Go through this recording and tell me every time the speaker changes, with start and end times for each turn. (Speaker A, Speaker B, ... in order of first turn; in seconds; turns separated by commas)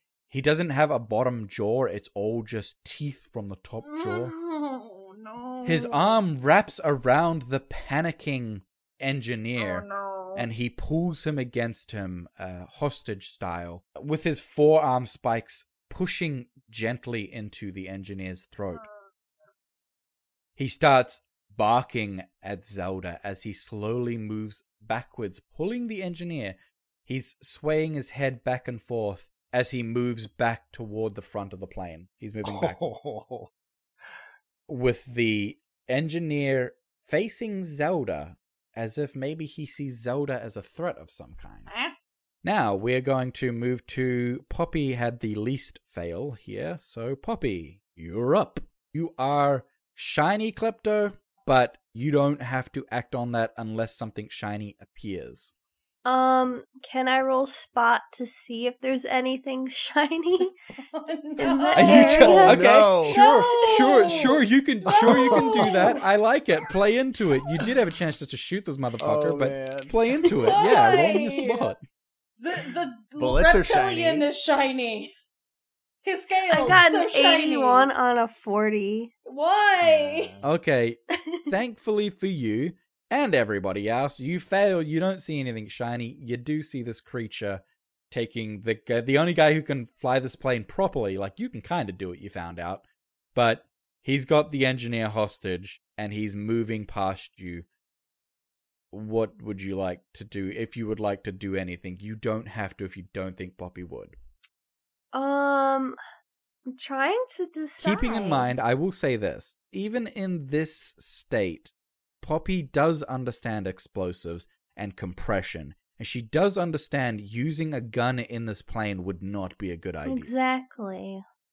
Speaker A: 0.3-4.3, Speaker B: 3.8-6.2, Speaker A: 5.6-18.8, Speaker B: 9.6-10.5, Speaker B: 18.7-19.1, Speaker A: 20.6-32.8, Speaker C: 32.4-33.5, Speaker A: 34.7-41.7, Speaker B: 41.7-41.9, Speaker A: 42.4-55.5, Speaker D: 56.0-60.5, Speaker B: 60.9-62.4, Speaker D: 61.4-62.7, Speaker A: 61.7-71.8, Speaker C: 61.8-63.2, Speaker B: 63.1-66.0, Speaker C: 64.9-65.7, Speaker C: 69.0-69.9, Speaker B: 70.4-71.7, Speaker B: 72.4-75.1, Speaker C: 73.2-74.3, Speaker B: 76.0-77.9, Speaker D: 76.5-79.1, Speaker B: 79.3-80.3, Speaker C: 79.8-80.5, Speaker A: 80.4-92.8, Speaker A: 93.3-97.7, Speaker A: 98.9-104.2, Speaker D: 105.1-106.0, Speaker D: 106.7-108.5, Speaker A: 107.8-120.3, Speaker D: 120.0-121.2